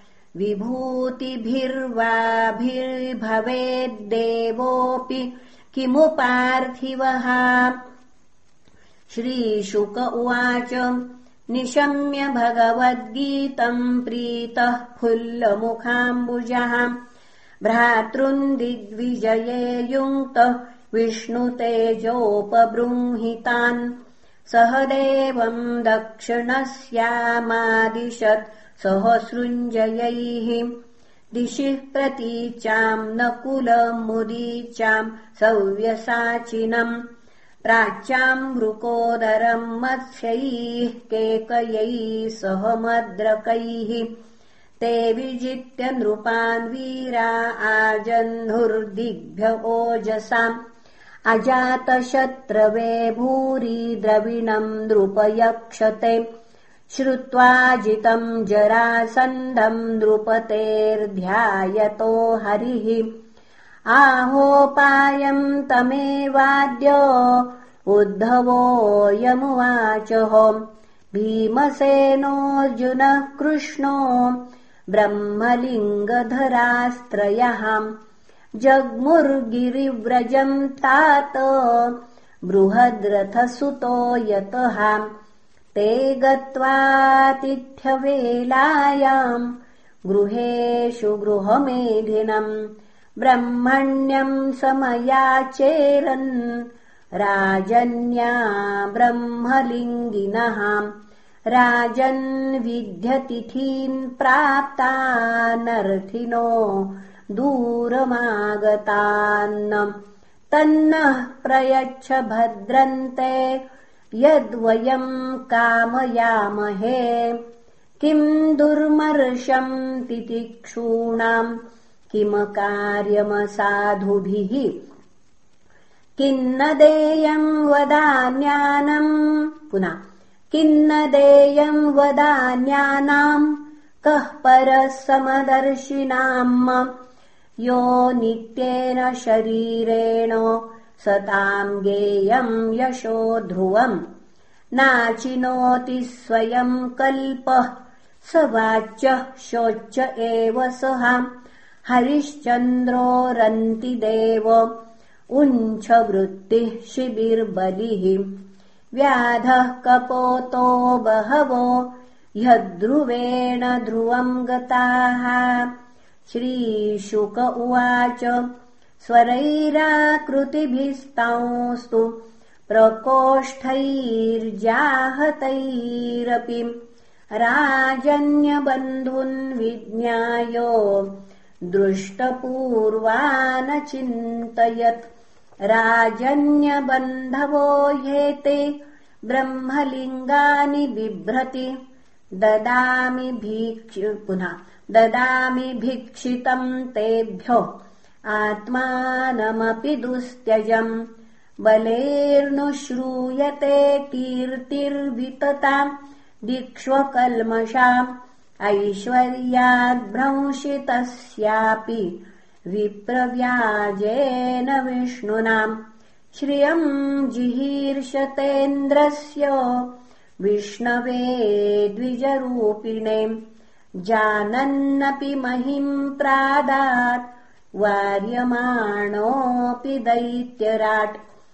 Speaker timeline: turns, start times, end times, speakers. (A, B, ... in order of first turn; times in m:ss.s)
0:00.4-0:07.8 A
0:09.1-0:16.9 A
0:17.6-0:23.9 A
0:24.5-0:30.7 A
0:31.3-0:37.0 A
0:37.6-0:44.1 A
0:44.8-0:50.5 A
0:51.3-0:56.2 A
0:56.9-1:03.1 A
1:03.9-1:10.6 A
1:11.1-1:14.4 A
1:14.9-1:17.9 A
1:18.6-1:25.1 A
1:25.7-1:29.5 A
1:30.1-1:32.5 A
1:33.2-1:36.6 A
1:37.2-1:40.9 A
1:41.5-1:49.9 A
1:50.5-1:53.6 A
1:54.2-1:57.4 A
1:58.0-2:01.5 A
2:02.1-2:04.7 A
2:06.2-2:10.0 A
2:10.5-2:16.9 A
2:17.6-2:24.0 A
2:24.7-2:31.3 A
2:31.8-2:34.7 A
2:35.3-2:38.2 A
2:39.0-2:45.7 A
2:46.3-2:48.4 A
2:49.0-2:52.2 A
2:52.7-2:56.7 A
2:57.4-3:01.2 A
3:01.7-3:05.0 A
3:05.7-3:11.7 A
3:12.4-3:17.7 A
3:18.3-3:20.9 A
3:21.6-3:25.9 A
3:26.4-3:28.1 A
3:28.6-3:35.8 A
3:36.3-3:39.8 A
3:40.4-3:43.3 A
3:44.0-3:51.2 A